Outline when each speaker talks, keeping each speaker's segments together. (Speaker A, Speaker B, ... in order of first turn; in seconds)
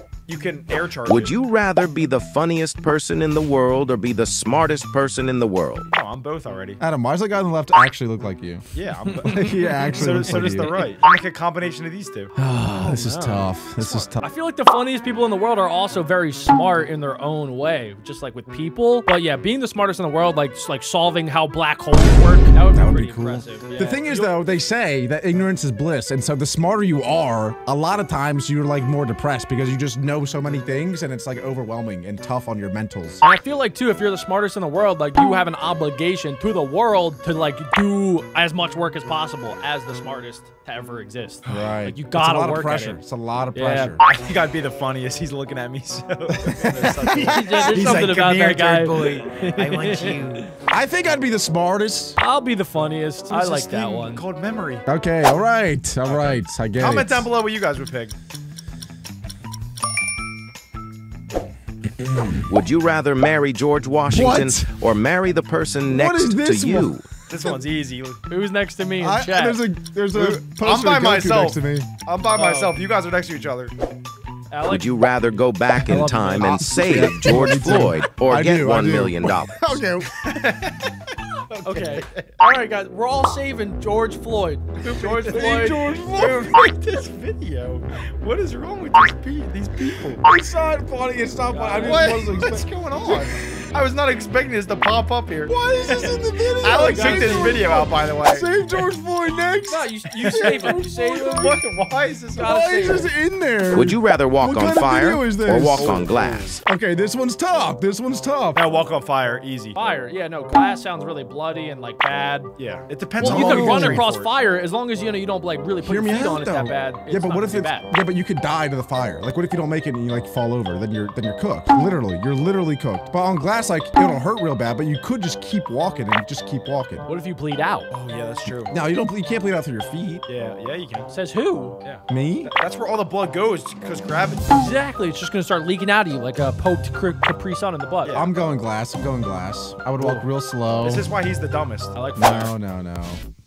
Speaker A: 0.3-1.3, 5.9-6.8, 8.8-12.3, 44.0-50.4, 53.3-54.9, 56.1-58.2, 67.3-68.2, 70.2-73.8, 80.2-80.9, 81.5-82.4, 85.1-90.2, 91.8-98.5, 100.2-103.0, 105.6-106.6, 108.5-109.8, 112.6-114.3, 127.9-128.7, 130.3-131.1, 131.8-134.5, 138.0-138.3, 140.8-142.0
Speaker B: 1.1-5.9, 49.6-49.8, 62.5-67.0, 74.7-79.7, 103.7-106.6
Speaker C: 6.8-8.7, 9.2-10.8, 12.4-14.2, 22.7-33.2, 41.5-44.0, 46.4-48.2, 50.7-52.2, 54.9-57.3, 62.0-62.5, 64.1-64.7, 65.9-67.6, 69.0-71.9, 76.4-80.2, 85.0-86.8, 90.2-93.6, 95.5-101.6, 102.4-106.1, 106.7-108.6, 113.2-114.0, 115.8-127.0, 128.7-130.2, 132.1-132.5, 138.1-141.1, 142.2-143.2
Speaker D: 10.0-10.9, 12.8-24.3, 33.2-43.0, 43.5-44.0, 47.0-50.5, 52.2-54.2, 68.3-69.6, 72.3-72.8, 74.5-75.0, 75.8-76.9, 81.6-85.9, 91.5-92.1, 96.7-97.8, 99.7-101.7, 102.4-103.1, 109.8-112.5, 113.2-117.9, 127.0-127.9, 131.1-131.8, 134.5-138.2, 141.9-142.5